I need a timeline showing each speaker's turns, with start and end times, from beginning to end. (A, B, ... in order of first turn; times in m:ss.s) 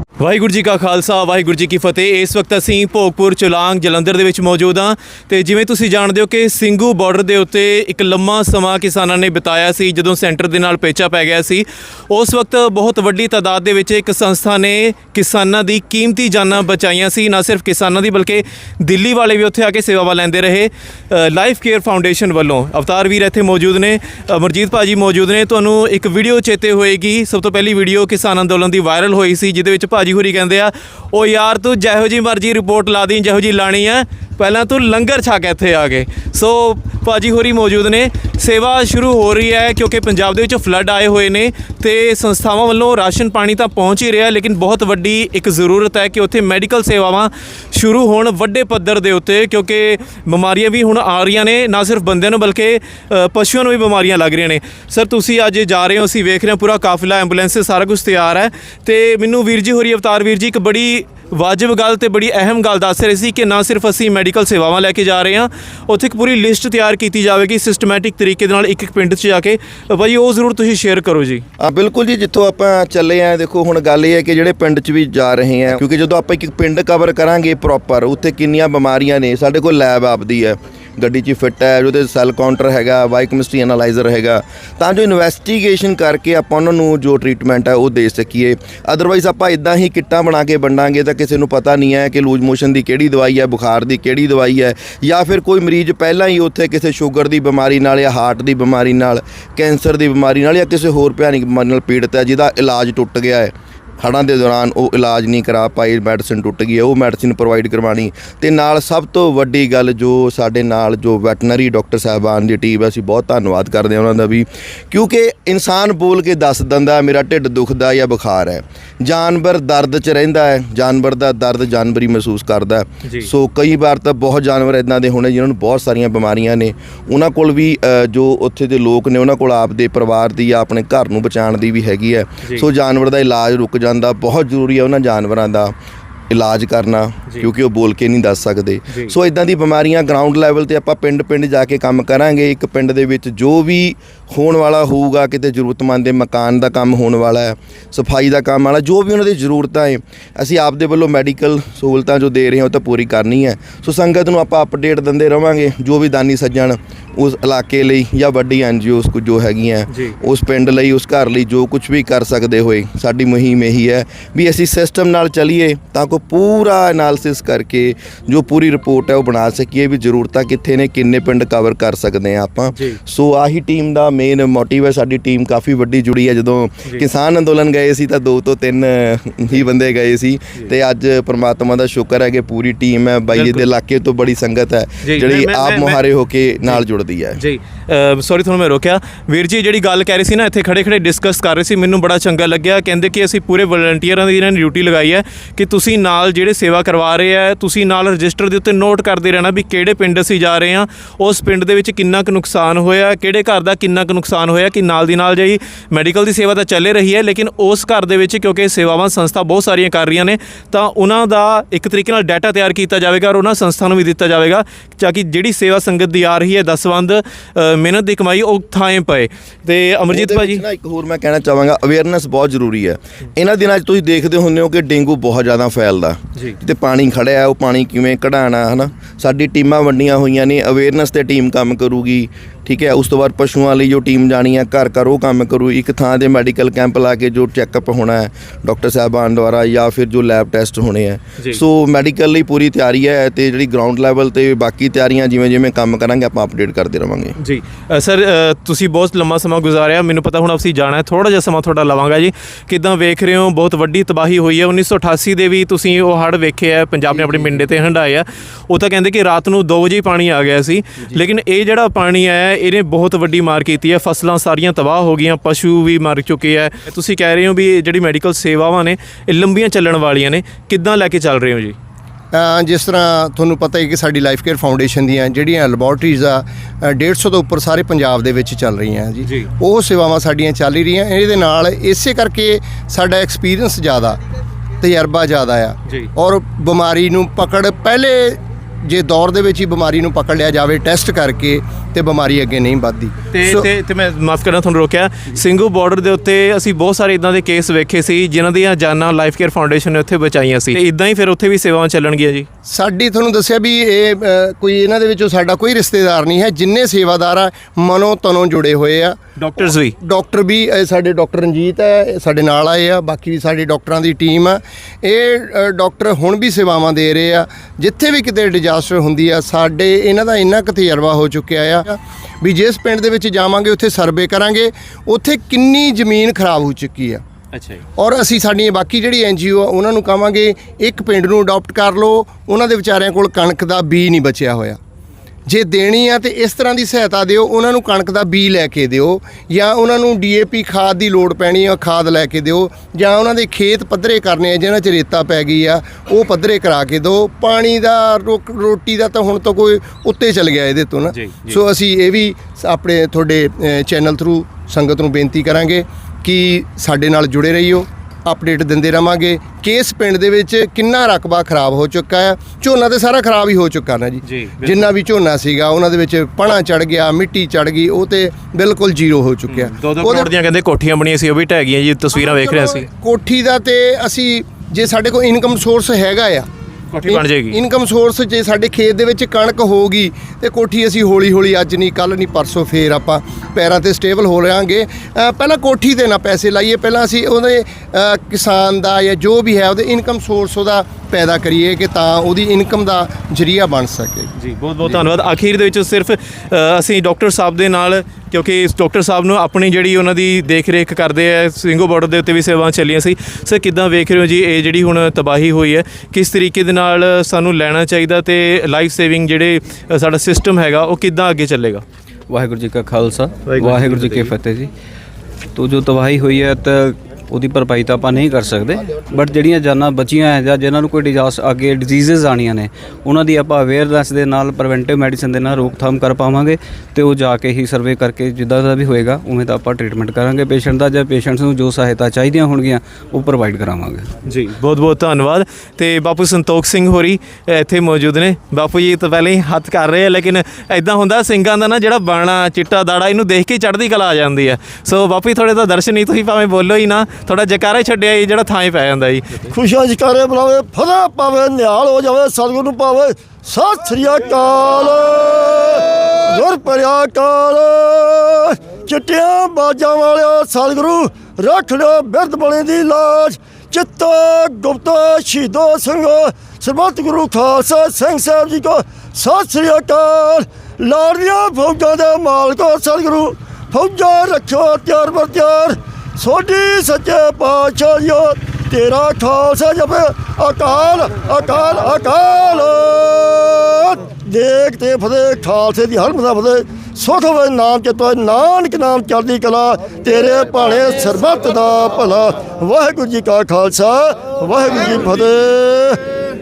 0:00.2-1:11.4 A
1:11.6-2:15.7 B
2:03.0-2:03.3 A
2:16.3-3:07.4 B
2:18.9-2:19.1 A
2:52.7-2:53.0 A
3:03.3-3:03.6 A
3:05.0-3:06.0 A
3:07.4-3:40.6 A
3:40.1-4:07.3 B
4:07.4-4:31.8 A
4:32.3-4:44.2 C
4:44.8-4:53.7 C
4:53.3-5:02.5 A
5:02.7-5:09.2 C
5:09.4-5:10.0 A
5:10.0-5:27.2 C
5:27.5-5:27.8 A
5:28.0-5:34.8 C
5:35.4-6:10.3 C
5:51.1-5:51.6 A
6:04.2-6:04.9 A
6:09.5-6:12.9 A
6:12.1-6:16.5 C
6:16.9-6:17.6 A
6:17.0-6:34.3 C
6:34.4-6:51.8 A
6:52.3-6:54.7 D
6:53.5-6:54.3 A
6:55.5-7:14.1 D
7:14.2-7:29.5 A
7:29.5-8:16.0 E